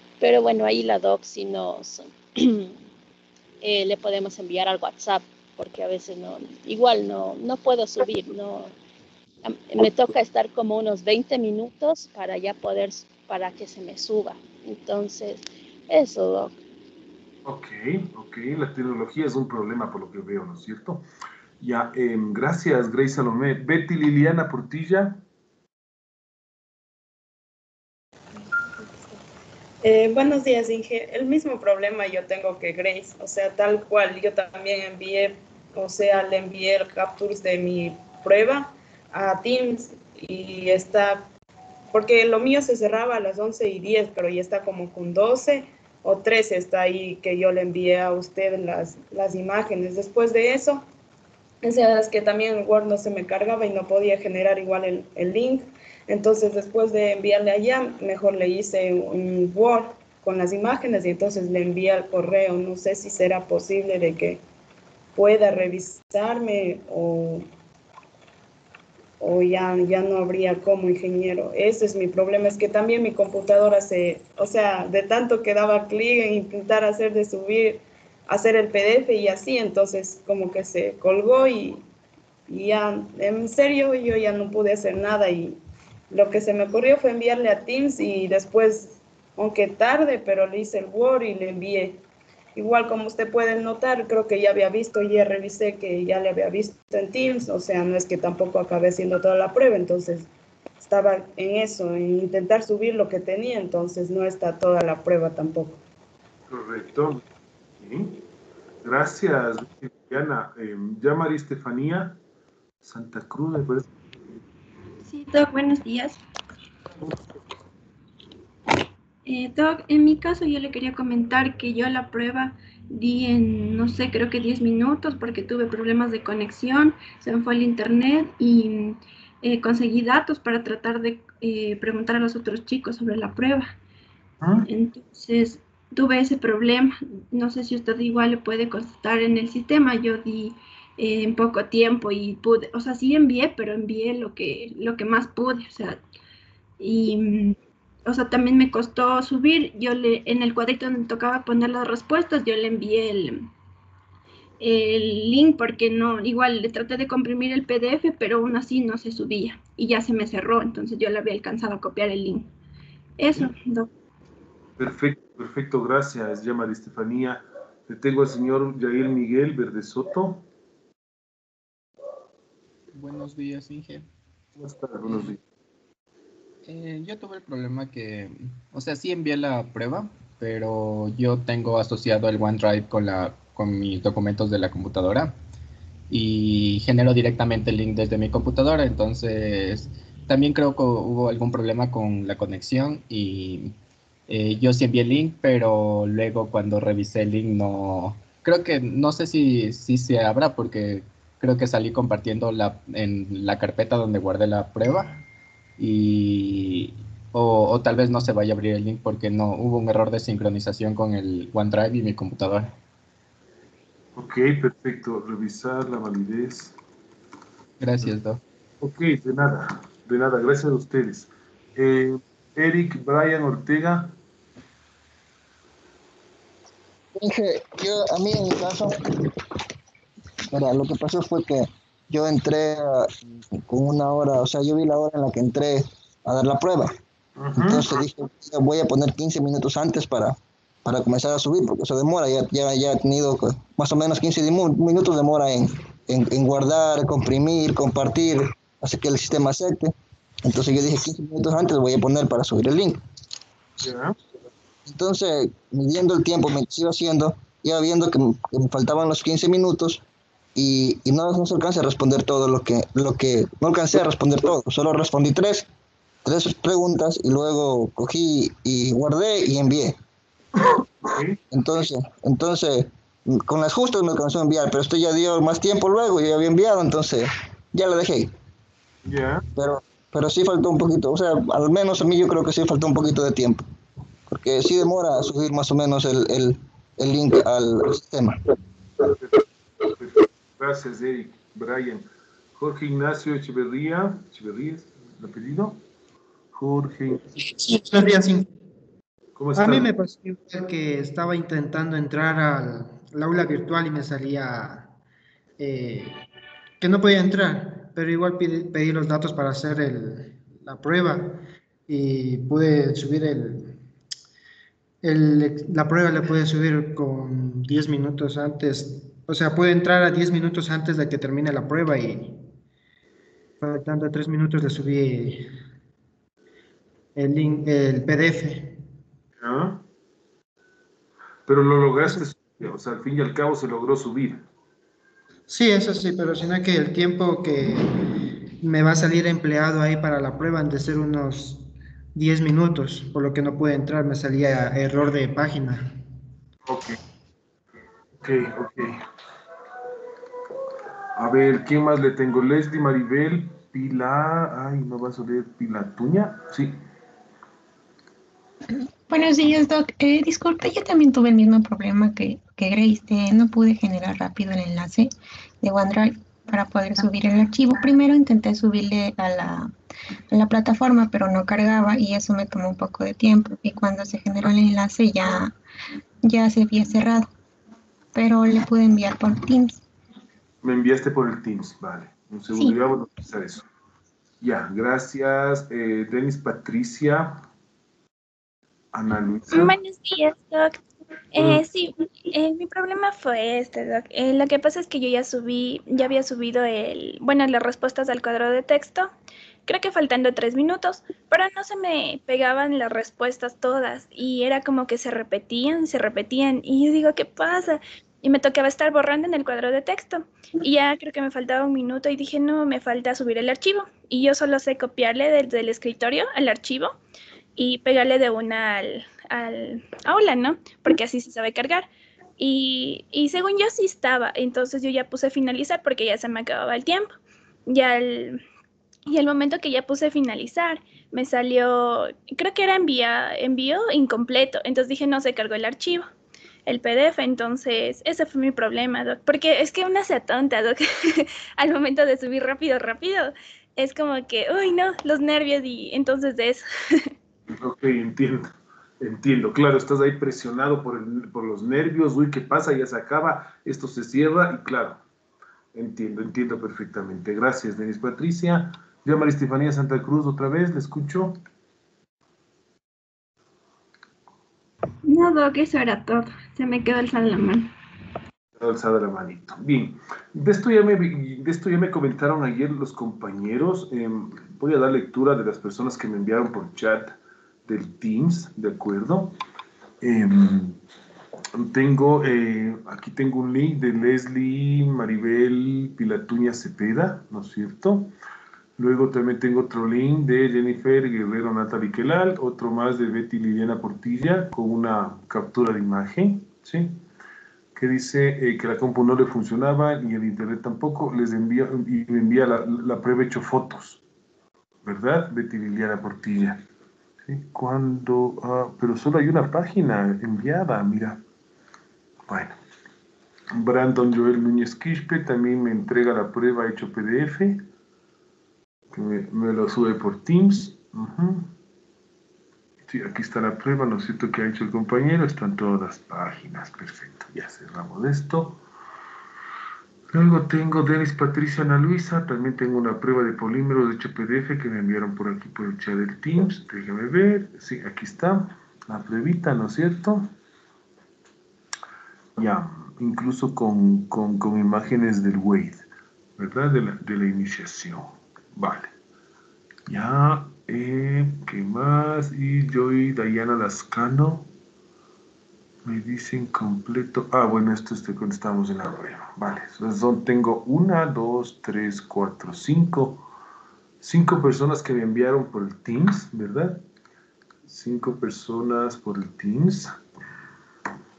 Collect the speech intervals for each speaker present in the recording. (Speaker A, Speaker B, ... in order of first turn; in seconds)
Speaker A: 0.2-2.7, 3.6-8.7, 9.4-16.6
Speaker B: 17.4-21.0, 21.6-25.2, 106.5-107.2, 107.8-108.2, 108.8-112.2, 112.8-113.9, 134.4-134.7, 164.8-170.4, 174.6-175.4, 214.2-216.8, 218.8-224.2, 237.4-237.8, 253.8-254.2, 271.0-271.4, 279.0-279.4, 289.1-289.4, 289.9-295.8, 296.5-297.4, 299.4-299.9, 329.4-329.8, 331.5-334.4, 346.6-347.0, 348.2-349.0, 351.1-356.8, 380.6-383.6, 384.4-387.4, 388.9-389.8, 391.4-391.6, 447.5-455.0, 455.7-461.4, 468.6-477.1, 477.6-479.3, 480.0-480.8, 481.5-488.1, 488.8-497.0, 497.7-504.0, 504.8-506.6, 507.2-511.2, 512.3-512.5, 513.5-517.6, 518.9-521.5, 522.9-528.6, 530.1-540.3, 542.4-545.9, 546.4-548.9, 549.9-554.5, 555.8-563.2, 564.0-566.8, 567.6-570.0
Speaker C: 29.8-41.3, 41.9-50.8, 51.6-64.4, 65.1-67.5, 69.2-81.8, 82.5-85.6, 86.1-92.0, 92.5-100.3, 100.8-105.8
Speaker D: 115.0-116.2, 119.2-133.7, 134.6-146.0, 146.8-153.5, 154.6-162.5, 163.2-163.9, 465.0-467.7
Speaker E: 172.9-174.1, 176.7-185.3, 186.1-193.7, 194.3-205.2, 205.8-212.7, 217.8-218.4
Speaker F: 227.1-229.0, 230.5-236.9, 237.6-253.0, 254.8-260.0, 260.5-265.7, 266.2-269.9, 271.5-278.3, 279.5-283.6, 284.3-288.4
Speaker G: 297.4-298.5, 299.6-304.9, 305.6-306.2, 306.8-313.8, 315.0-322.4, 323.6-325.5, 327.1-328.8, 335.5-345.9
Speaker H: 358.7-369.7, 370.3-375.5, 376.2-377.3, 378.1-379.8
Speaker I: 389.5-390.8, 391.3-399.1, 399.6-416.9, 417.6-427.1, 427.7-428.4, 429.1-436.1, 436.6-447.1